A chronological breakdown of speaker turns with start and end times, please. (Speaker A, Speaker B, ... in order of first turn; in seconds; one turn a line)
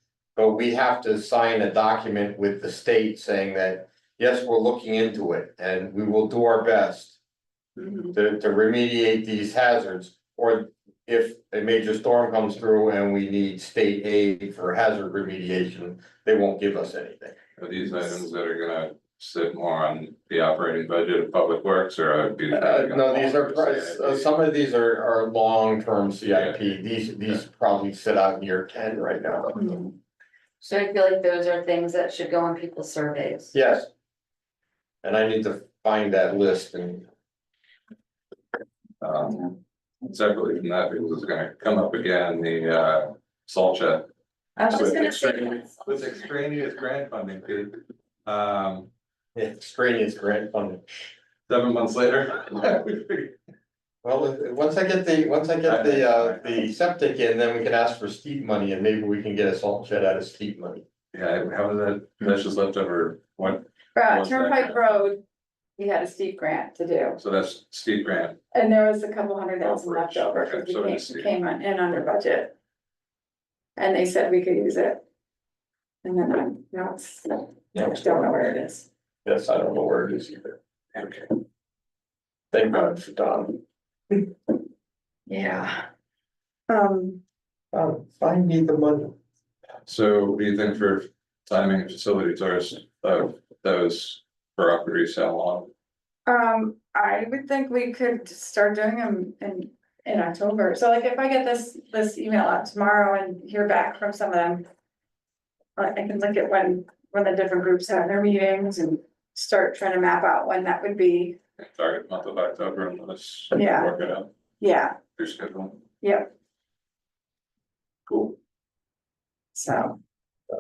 Speaker A: 0.4-7.2
Speaker B: 7.8-8.2
Speaker A: 8.1-17.4
Speaker C: 17.6-24.4
Speaker A: 22.5-29.7
Speaker C: 26.3-26.6
Speaker B: 29.5-29.9
Speaker D: 30.6-33.5
Speaker A: 33.5-33.9
Speaker A: 35.0-37.1
Speaker C: 39.0-39.5
Speaker C: 40.0-44.1
Speaker B: 44.6-45.6
Speaker C: 44.7-48.9
Speaker A: 49.4-50.8
Speaker C: 51.5-53.3
Speaker A: 54.0-60.9
Speaker C: 55.6-56.4
Speaker C: 61.1-65.0
Speaker B: 64.0-65.2
Speaker B: 65.8-67.2
Speaker C: 67.2-68.4
Speaker B: 68.5-72.5
Speaker C: 69.6-71.3
Speaker B: 73.8-75.0
Speaker B: 76.0-78.9
Speaker A: 77.7-78.0
Speaker A: 79.2-80.6
Speaker C: 81.0-81.3
Speaker A: 82.5-83.6
Speaker B: 85.3-85.9
Speaker B: 86.7-87.2
Speaker A: 87.7-89.2
Speaker C: 89.9-95.7
Speaker B: 96.3-104.7
Speaker B: 105.8-111.4
Speaker C: 111.6-114.3
Speaker B: 113.5-114.0
Speaker B: 114.6-115.0
Speaker C: 115.2-115.8
Speaker B: 116.0-116.3
Speaker C: 118.1-118.3
Speaker B: 119.5-120.0